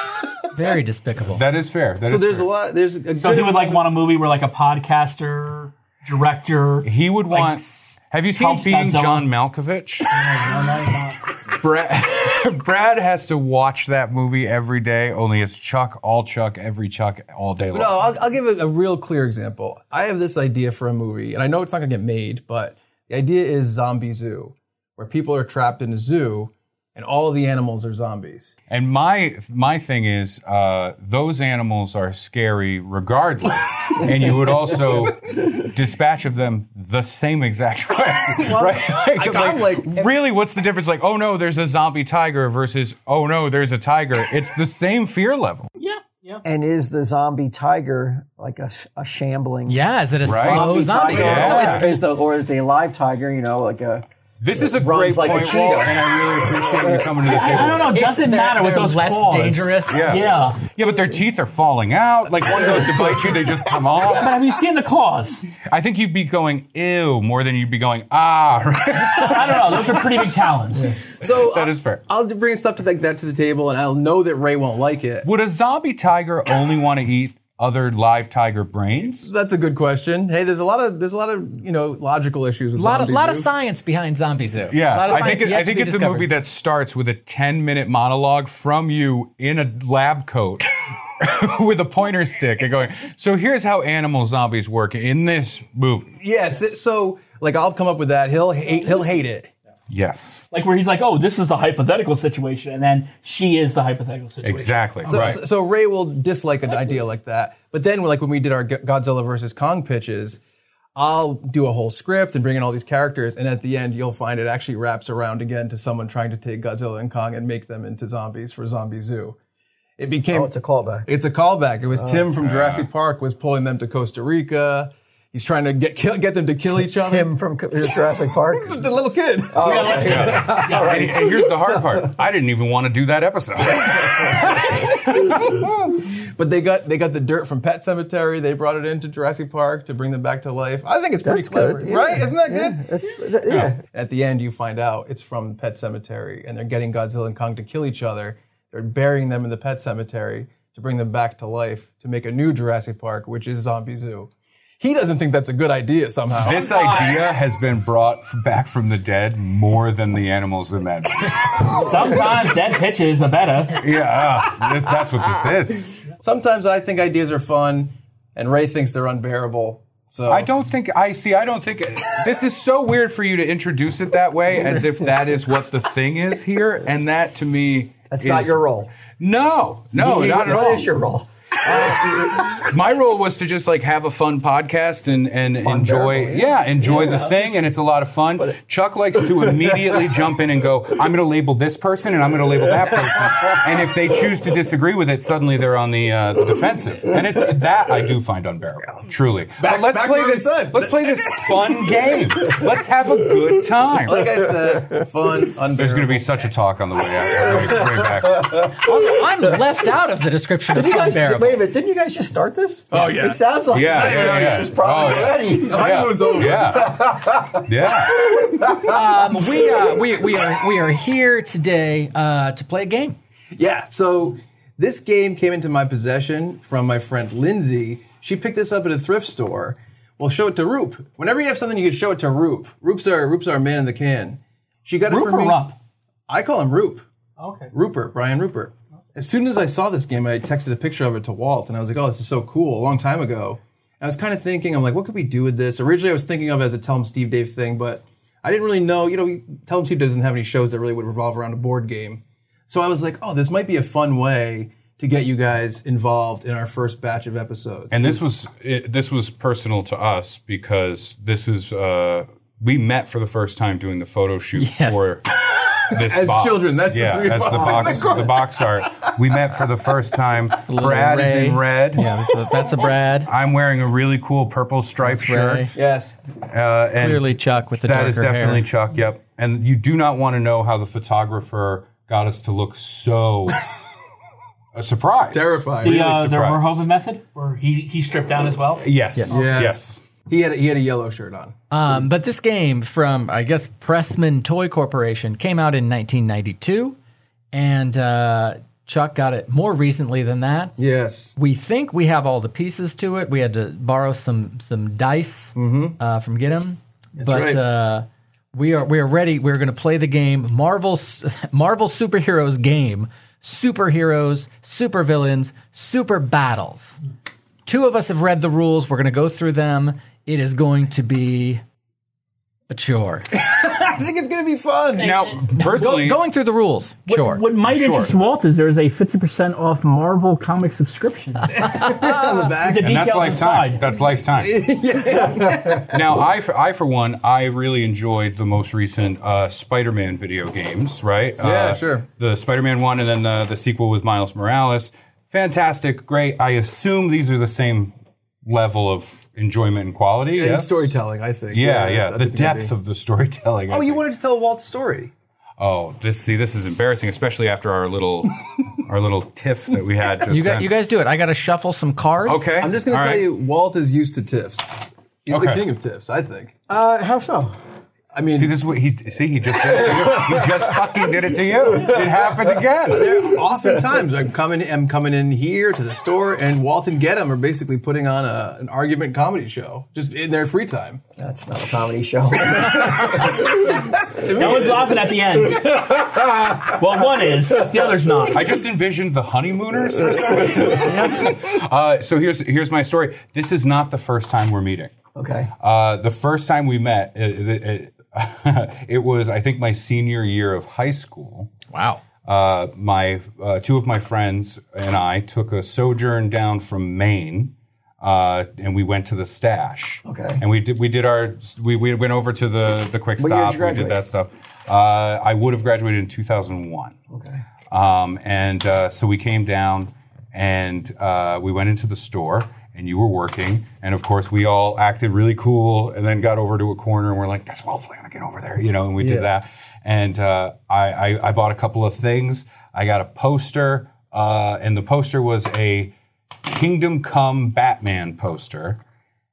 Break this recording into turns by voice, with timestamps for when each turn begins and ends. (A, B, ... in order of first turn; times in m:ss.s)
0:00.5-0:01.4 A
0:01.3-0:02.5 B
0:02.0-0:03.8 C
0:03.2-0:06.9 D
0:06.8-0:10.1 B
0:07.3-0:08.0 A
0:08.4-0:09.3 D
0:10.1-0:11.4 D
0:11.4-0:18.0 B
0:17.7-0:28.5 C
0:28.7-0:45.7 B
0:38.4-0:40.1 C
0:45.8-0:46.4 D
0:46.4-0:57.6 E
0:49.7-0:52.0 A
0:50.2-0:51.9 B
0:54.4-0:58.0 B
0:57.3-1:00.6 D
0:57.9-1:00.2 A
0:59.9-1:04.4 B
1:04.2-1:05.5 D
1:05.7-1:09.8 B
1:09.2-1:11.0 D
1:10.8-1:15.3 C
1:11.2-1:12.0 B
1:15.2-1:19.3 B
1:19.2-1:23.5 C
1:22.8-1:26.3 A
1:24.7-1:36.2 B
1:36.2-1:39.5 C
1:39.9-1:40.4 B
1:40.5-1:45.3 D
1:44.4-1:45.4 B
1:45.0-1:50.4 C
1:51.0-1:59.4 C
2:00.0-2:00.5 C
2:00.3-2:01.1 E
2:01.0-2:08.0 C
2:02.0-2:02.2 E
2:02.4-2:02.9 B
2:06.9-2:08.8 E
2:08.6-2:10.5 C
2:09.5-2:11.8 E
2:09.6-2:11.0 D
2:10.0-2:15.7 B
2:14.3-2:23.2 C
2:21.2-2:23.8 E
2:23.5-2:23.8 B
2:23.8-2:36.7 C
2:36.4-2:41.8 B
2:36.4-2:37.3 D
2:41.7-2:43.8 D
2:43.7-2:46.1 B
2:46.2-2:50.5 C
2:50.3-3:00.9 B
2:58.1-2:58.9 E
2:59.9-3:02.7 E
3:02.6-3:24.3 B
3:05.7-3:06.4 E
3:07.3-3:07.5 E
3:19.6-3:21.4 C
3:24.0-3:26.4 C
3:25.8-3:28.7 B
3:28.7-3:31.6 A
3:30.7-3:37.6 E
3:32.9-3:37.2 C
3:33.7-3:37.0 B
3:37.7-3:38.2 B
3:38.3-3:39.0 E
3:38.8-3:43.2 A
3:43.5-3:55.7 C
3:55.1-3:55.8 D
3:56.3-3:57.0 C
3:57.4-3:57.7 D
3:57.7-4:18.2 C
4:17.9-4:25.2 B
4:24.6-4:25.0 A
4:25.9-4:32.0 B
4:25.9-4:29.0 C
4:30.6-4:33.3 A
4:33.2-4:35.7 B
4:35.0-4:35.7 A
4:35.8-4:36.2 C
4:36.4-4:43.6 B
4:37.0-4:38.6 A
4:44.8-4:46.9 B
4:45.3-4:46.0 C
4:45.8-4:48.8 D
4:48.8-4:50.0 B
4:49.3-4:51.6 C
4:51.7-4:57.0 A
4:57.5-5:00.8 A
5:00.8-5:01.4 C
5:01.4-5:17.0 A
5:05.6-5:06.0 C
5:07.2-5:07.6 C
5:17.7-5:21.6 A
5:22.7-5:23.3 A
5:23.3-5:25.2 C
5:25.0-5:26.0 D
5:25.0-5:26.2 B
5:25.6-5:27.4 A
5:27.1-5:31.7 D
5:27.7-5:28.1 B
5:31.5-5:33.2 C
5:31.6-5:32.3 A
5:32.6-5:33.9 D
5:32.8-5:34.6 B
5:34.3-5:36.0 C
5:35.8-5:51.0 B
5:41.4-5:42.1 C
5:50.4-5:52.7 C
5:51.5-5:54.0 B
5:53.7-5:55.1 C
5:55.6-6:00.7 B
6:00.3-6:02.6 A
6:02.3-6:03.3 B
6:02.6-6:06.5 C
6:05.3-6:05.6 B
6:06.7-6:07.6 E
6:08.1-6:08.6 C
6:08.3-6:13.1 B
6:12.9-6:21.0 C
6:21.2-6:23.9 E
6:22.6-6:23.4 C
6:24.1-6:25.1 C
6:24.3-6:28.6 D
6:28.3-6:34.9 B
6:30.8-6:31.2 A
6:35.2-6:35.5 E
6:35.6-6:41.5 B
6:41.7-6:42.0 A
6:42.2-6:57.0 B
6:50.0-6:50.4 E
6:53.2-6:54.0 E
6:57.1-6:57.4 E
6:57.7-7:18.8 B
7:09.0-7:09.3 C